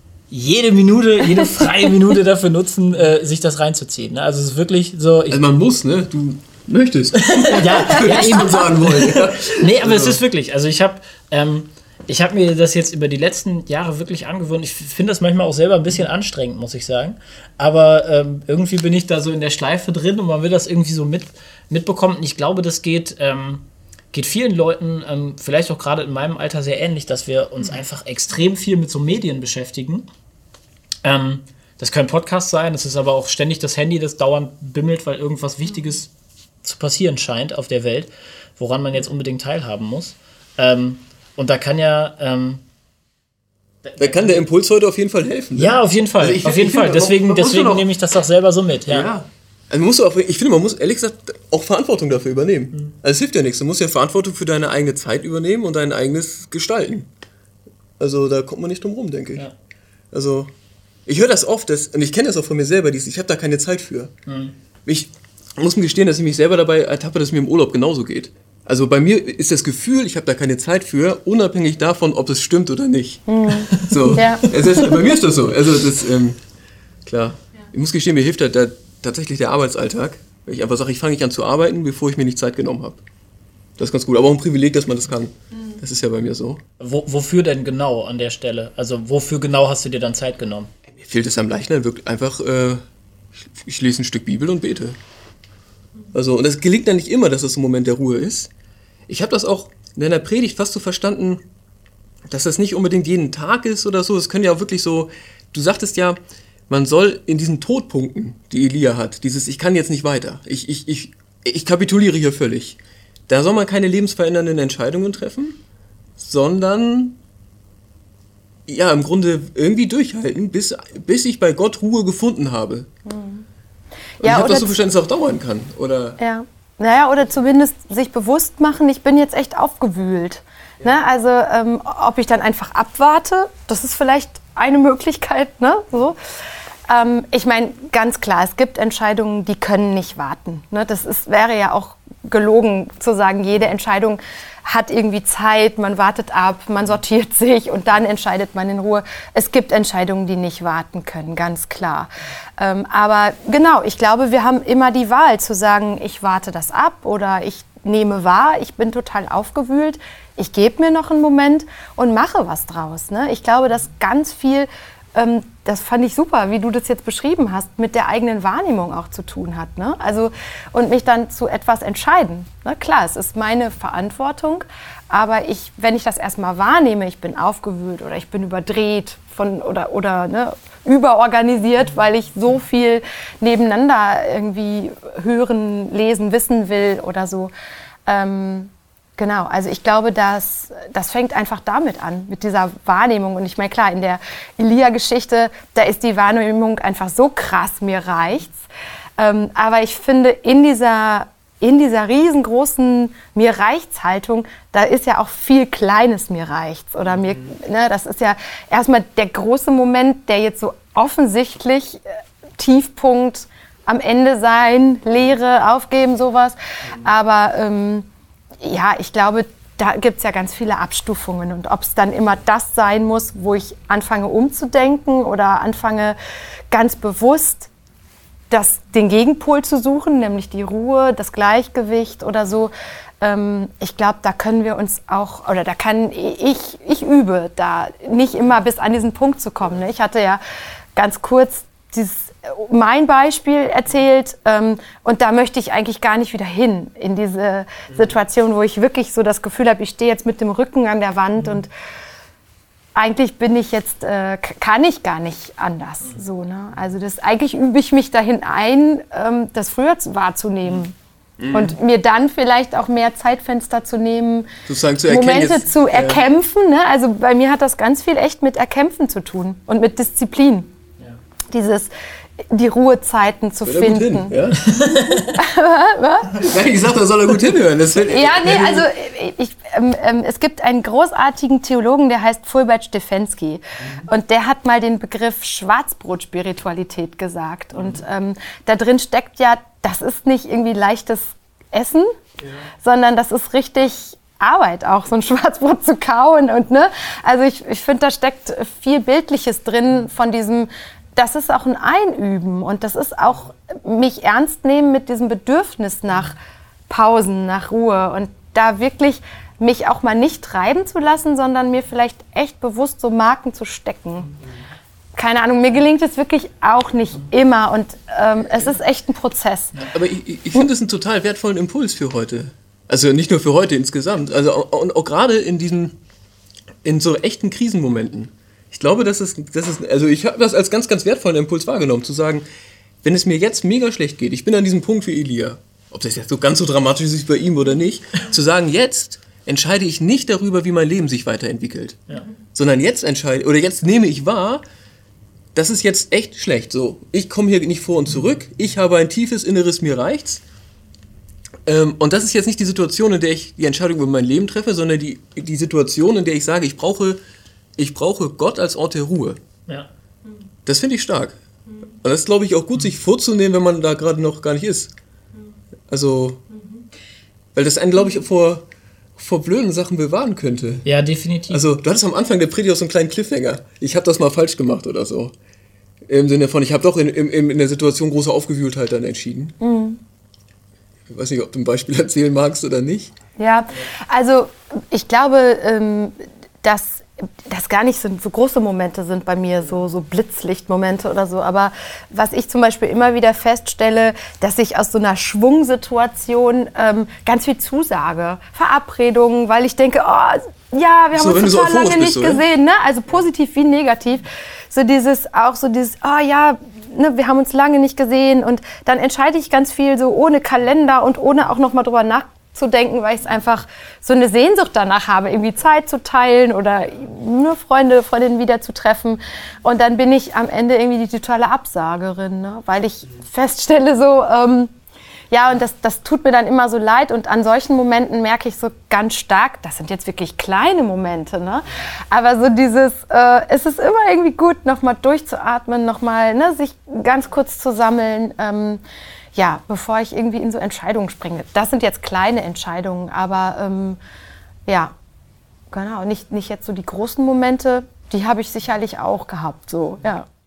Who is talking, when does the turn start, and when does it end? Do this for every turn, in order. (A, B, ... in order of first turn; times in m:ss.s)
0:00.3-0:05.4 A
0:05.3-0:10.2 B
0:07.2-0:30.1 A
0:31.0-0:36.1 A
0:36.6-0:42.6 A
0:43.8-0:44.4 A
0:44.0-0:47.9 B
0:45.5-0:49.1 A
0:48.9-0:57.1 B
0:58.0-0:59.4 B
1:00.1-1:00.5 B
1:01.0-1:04.1 B
1:04.3-1:04.5 A
1:04.8-1:16.4 B
1:13.3-1:14.4 C
1:13.7-1:15.0 A
1:17.0-1:23.0 B
1:23.8-1:26.6 B
1:26.8-1:30.7 A
1:30.9-1:32.8 B
1:33.5-1:35.0 B
1:36.1-1:38.5 B
1:39.1-1:41.4 B
1:42.3-1:55.6 B
1:56.2-1:57.2 B
1:58.7-2:02.9 B
2:03.0-2:03.4 C
2:04.2-2:04.8 C
2:04.2-2:06.2 B
2:06.2-2:16.2 C
2:16.9-3:07.5 C
3:08.1-3:18.6 C
3:19.2-3:32.0 C
3:32.6-3:38.1 C
3:38.6-3:46.2 C
3:46.7-3:47.7 C
3:48.5-4:00.4 C
4:01.0-4:11.7 C
4:12.9-4:20.9 C
4:21.4-4:21.7 B
4:21.5-4:24.5 C
4:24.6-4:26.2 B
4:25.1-4:30.7 C
4:31.5-4:31.9 C
4:32.5-4:34.3 C
4:33.6-4:34.6 B
4:34.5-4:35.4 A
4:34.9-4:36.6 C
4:36.4-4:38.9 B
4:38.0-4:52.1 C
4:52.8-5:06.4 C
5:06.9-5:14.3 C
5:15.2-5:19.8 C
5:19.9-5:26.0 B
5:26.8-5:32.4 B
5:33.0-5:44.6 B
5:45.5-5:50.4 B
5:51.6-5:57.2 B
5:57.8-5:59.4 B
6:00.6-6:01.4 B
6:02.0-6:04.9 B
6:05.9-6:06.4 B
6:07.5-6:10.8 B
6:10.8-6:11.6 A
6:11.5-6:15.3 B
6:16.1-6:19.6 B
6:19.6-6:20.0 C
6:21.1-6:23.1 B
6:23.4-7:04.7 C
6:41.1-6:42.4 B
7:05.3-7:18.8 C
7:19.3-7:24.0 C
7:24.7-7:24.9 C
7:25.7-7:30.3 C